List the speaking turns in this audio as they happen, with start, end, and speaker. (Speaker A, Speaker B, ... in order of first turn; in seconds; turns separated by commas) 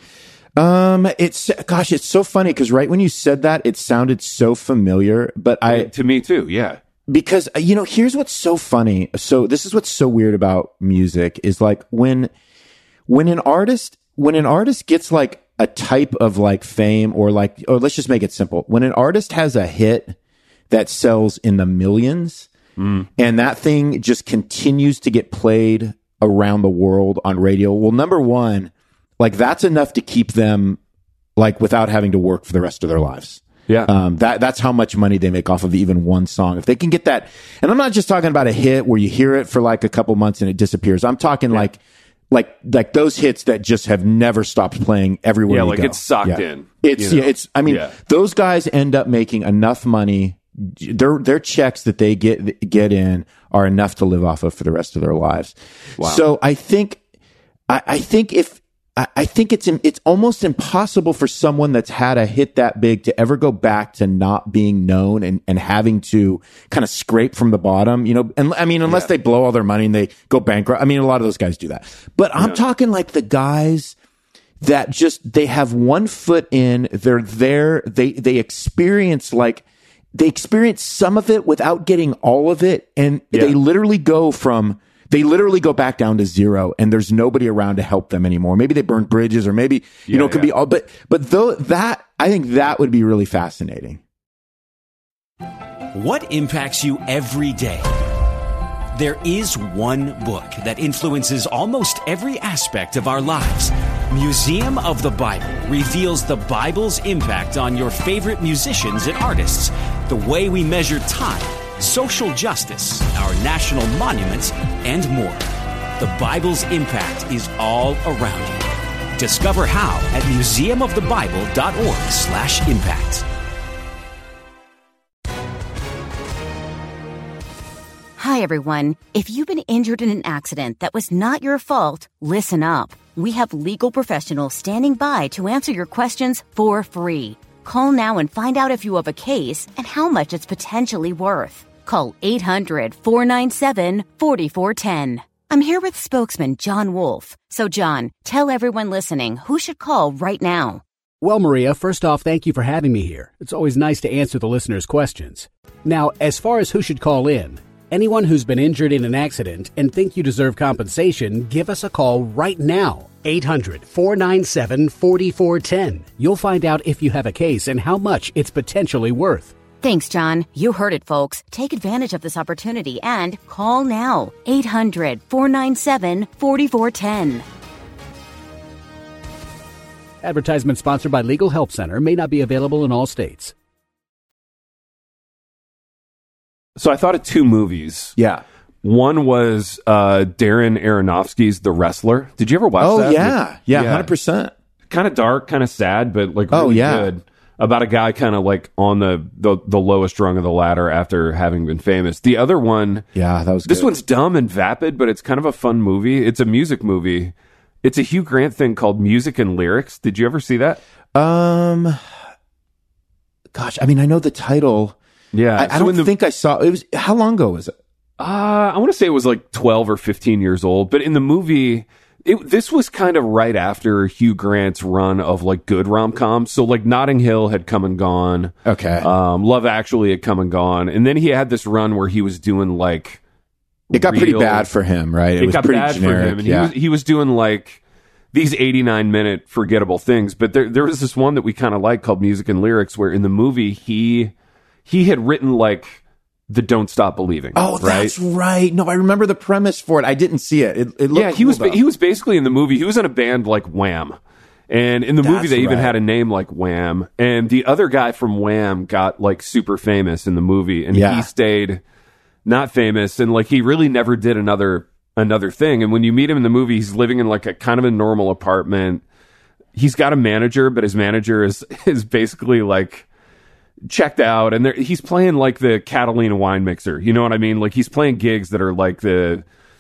Speaker A: 0.6-5.9, Speaker B: 5.7-6.8, Speaker A: 7.1-12.3, Speaker A: 13.1-20.2, Speaker A: 20.7-22.5, Speaker B: 22.8-23.1, Speaker A: 23.2-30.8, Speaker A: 31.4-41.8, Speaker A: 42.3-57.0, Speaker B: 45.5-48.0, Speaker A: 57.7-74.0, Speaker A: 74.6-79.6, Speaker A: 80.2-94.0, Speaker B: 83.3-83.6, Speaker B: 90.1-90.5, Speaker C: 95.9-97.9, Speaker C: 99.0-115.4, Speaker C: 116.0-118.6, Speaker C: 119.2-123.2, Speaker D: 128.2-150.8, Speaker E: 151.2-169.5, Speaker D: 169.8-177.4, Speaker E: 180.2-183.5, Speaker B: 186.8-188.2, Speaker A: 188.2-188.4, Speaker B: 188.8-194.1, Speaker A: 192.8-194.5, Speaker B: 194.9-203.1, Speaker A: 196.5-197.1, Speaker A: 203.2-203.9, Speaker B: 203.7-210.8, Speaker A: 211.2-212.0, Speaker A: 213.5-215.0, Speaker B: 215.3-216.1, Speaker A: 215.6-217.7, Speaker B: 218.2-233.2, Speaker A: 228.7-229.1, Speaker B: 233.9-234.7, Speaker A: 233.9-236.7, Speaker B: 235.4-237.8, Speaker B: 238.3-244.3, Speaker B: 244.9-248.2, Speaker A: 247.6-251.8, Speaker B: 251.1-254.2, Speaker B: 254.7-261.8, Speaker A: 255.2-255.9, Speaker A: 260.9-261.3, Speaker B: 262.4-269.0, Speaker B: 269.8-273.1, Speaker B: 273.9-279.4